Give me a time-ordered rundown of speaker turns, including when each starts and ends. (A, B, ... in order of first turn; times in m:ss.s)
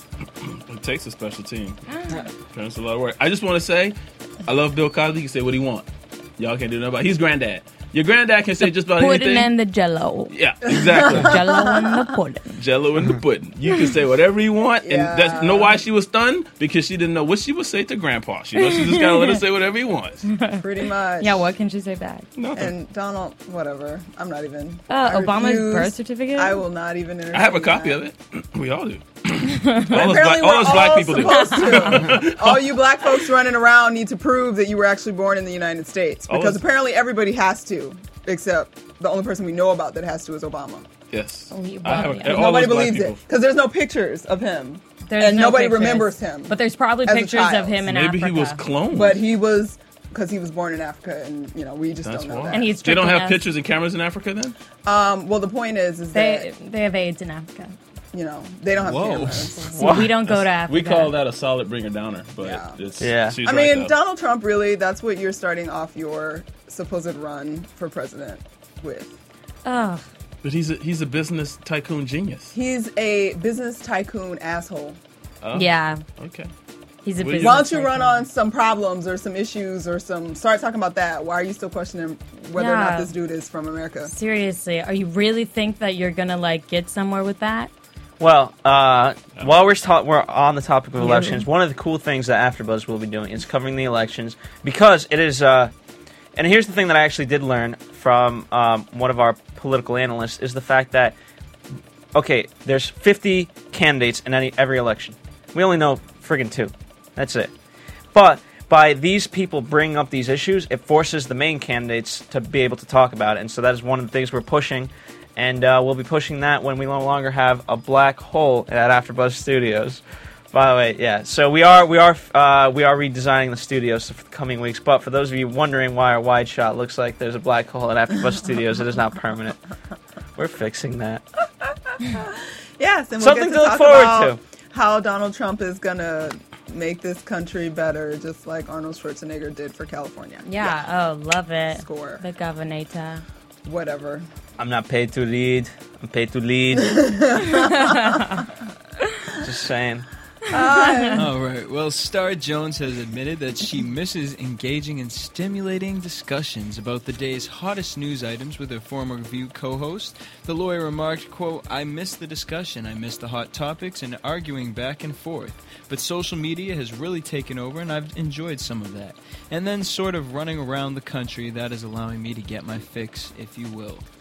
0:00.4-0:01.8 A
0:01.9-0:02.3 B
0:02.5-0:09.5 A
0:08.9-0:10.4 B
0:10.3-0:11.4 A
0:10.7-0:12.0 C
0:11.1-0:12.6 B
0:12.6-0:20.3 A
0:14.8-0:15.8 C
0:18.6-0:19.4 B
0:20.3-0:20.6 B
0:20.6-0:21.4 C
0:21.2-0:22.3 B
0:22.4-0:22.7 A
0:22.6-0:28.0 C
0:24.9-0:26.6 B
0:27.3-0:32.8 A
0:29.5-0:29.9 B
0:29.9-0:40.9 C
0:31.2-0:32.1 B
0:36.3-0:36.6 A
0:41.1-0:43.2 A
0:41.5-0:42.6 B
0:42.2-0:47.8 C
0:45.0-0:48.6 B
0:47.9-0:49.2 A
0:48.9-0:52.7 C
0:52.0-0:54.6 A
0:52.5-0:53.4 B
0:54.8-0:56.5 C
0:56.1-0:57.8 B
0:58.1-0:59.9 C
0:58.8-0:59.6 D
0:59.6-1:01.1 B
0:59.7-1:00.1 E
1:00.0-1:03.9 A
1:02.4-1:02.8 C
1:03.0-1:03.4 E
1:03.4-1:09.1 C
1:09.6-1:10.0 B
1:10.4-1:12.6 A
1:12.5-1:15.0 C
1:15.4-1:16.5 A
1:15.5-1:16.0 B
1:17.0-1:18.3 B
1:17.2-1:17.7 A
1:17.4-1:24.1 C
1:22.6-1:23.1 B
1:24.0-1:27.7 B
1:28.2-1:35.7 E
1:31.0-1:31.4 B
1:36.4-1:41.2 E
1:42.1-1:47.5 E
1:48.1-2:00.0 E
2:00.5-2:09.6 E
2:10.4-2:11.2 E
2:11.6-2:20.7 C
2:13.2-2:14.4 E
2:20.4-2:23.2 B
2:21.7-2:22.2 C
2:23.6-2:24.2 C
2:24.6-2:27.1 E
2:26.8-2:28.2 C
2:27.5-2:28.4 B
2:29.4-2:30.1 E
2:30.5-2:31.3 C
2:31.1-2:54.0 D